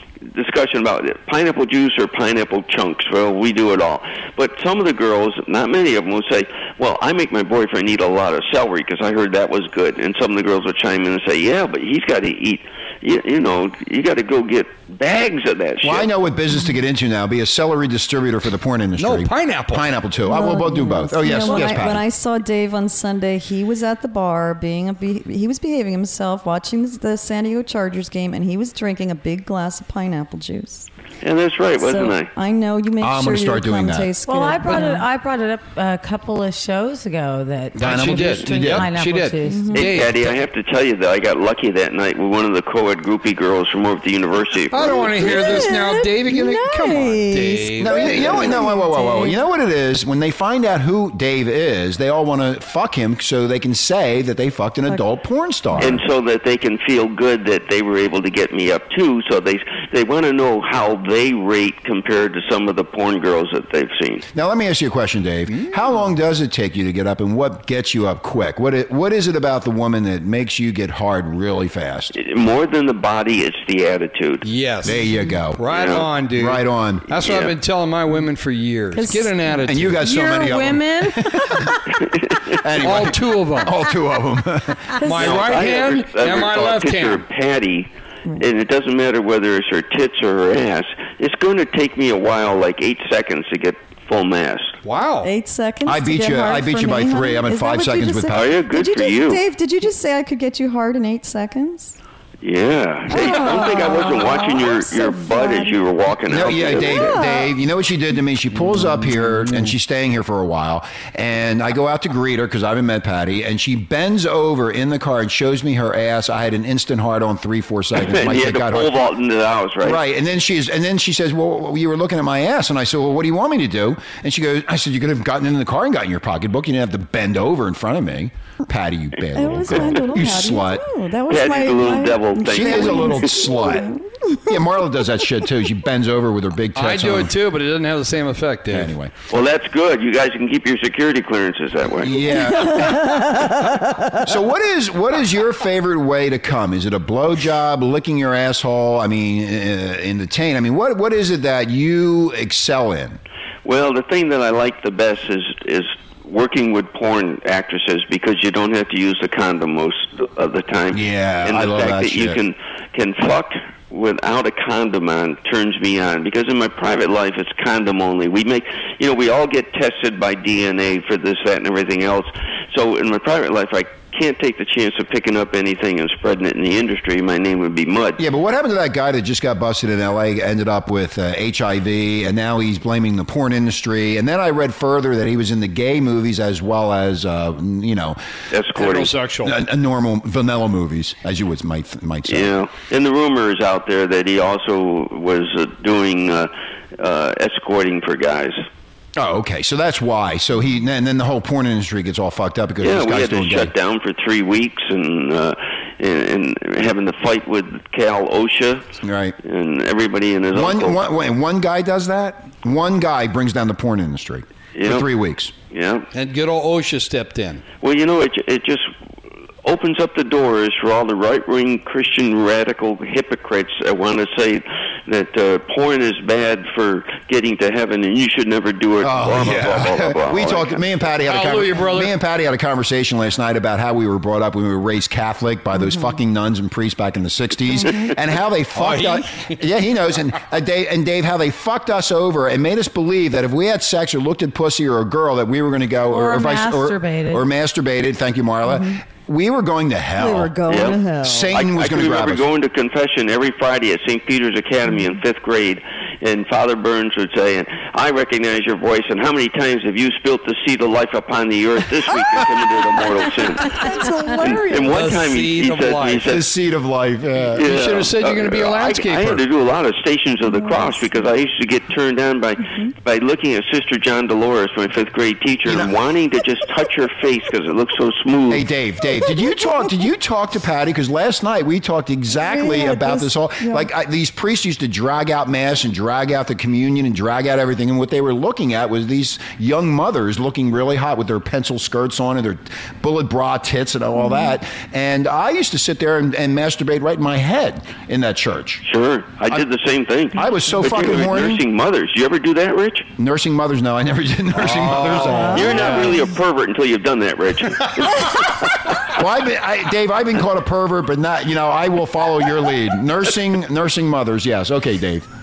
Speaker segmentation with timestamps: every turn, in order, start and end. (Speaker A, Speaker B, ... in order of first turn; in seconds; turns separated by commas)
Speaker A: 0.2-16.1, Speaker B: 15.8-22.1, Speaker C: 19.0-19.9, Speaker D: 20.2-30.9, Speaker A: 31.2-32.3, Speaker D: 31.8-35.0, Speaker B: 33.0-34.1, Speaker E: 34.2-39.6, Speaker B: 37.8-38.9, Speaker C: 37.8-40.3, Speaker D: 39.5-39.9, Speaker A: 39.7-45.4, Speaker C: 44.7-48.4, Speaker D: 44.9-49.4, Speaker B: 47.8-56.0, Speaker A: 55.8-64.2, Speaker B: 64.3-72.1, Speaker A: 72.1-74.5, Speaker C: 74.4-80.0, Speaker B: 74.8-77.2, Speaker A: 75.7-76.1, Speaker A: 77.2-77.5, Speaker D: 79.0-79.3, Speaker B: 79.6-81.7, Speaker E: 80.0-81.7, Speaker B: 82.6-85.0, Speaker C: 82.8-83.8, Speaker C: 85.0-87.2, Speaker D: 85.0-85.3, Speaker A: 85.2-94.8, Speaker C: 94.8-95.3, Speaker D: 95.2-102.0, Speaker B: 95.8-98.4, Speaker A: 98.3-99.4, Speaker A: 102.4-107.2, Speaker D: 103.1-105.8, Speaker B: 106.2-119.0, Speaker D: 106.7-107.5, Speaker A: 117.9-120.0, Speaker B: 119.8-130.8, Speaker D: 129.3-134.6, Speaker A: 131.3-133.3, Speaker B: 132.5-133.9, Speaker B: 134.4-137.3, Speaker C: 136.7-138.9, Speaker B: 138.7-139.1, Speaker A: 139.3-142.4, Speaker B: 142.0-153.2, Speaker D: 142.2-144.1, Speaker A: 153.6-178.2, Speaker B: 160.9-162.4, Speaker B: 178.2-188.2, Speaker A: 188.5-189.1, Speaker C: 188.7-189.6, Speaker B: 189.4-192.5, Speaker A: 192.2-198.6, Speaker B: 199.2-203.7, Speaker A: 202.8-208.9, Speaker B: 209.0-209.3, Speaker A: 209.4-211.0, Speaker B: 210.5-215.5, Speaker A: 214.7-215.1, Speaker A: 215.7-216.1, Speaker C: 216.1-217.6, Speaker A: 217.8-218.9, Speaker A: 219.6-230.8, Speaker B: 229.0-250.5, Speaker C: 231.2-232.1, Speaker D: 235.8-236.1, Speaker D: 237.8-238.1, Speaker C: 238.7-239.6, Speaker E: 246.1-247.4, Speaker D: 248.7-249.0, Speaker D: 250.2-251.6, Speaker A: 250.7-251.0, Speaker B: 251.2-252.5, Speaker A: 251.5-266.4, Speaker D: 263.5-265.0, Speaker C: 264.9-266.4, Speaker B: 266.3-267.7, Speaker A: 267.5-278.7, Speaker C: 267.6-269.4, Speaker D: 270.5-271.0, Speaker B: 275.6-275.9, Speaker B: 278.5-298.8, Speaker D: 282.3-283.9, Speaker A: 298.8-303.1, Speaker B: 300.3-301.6, Speaker B: 303.2-306.0, Speaker C: 304.6-306.2, Speaker D: 305.2-306.3, Speaker A: 305.5-308.8, Speaker B: 309.0-315.3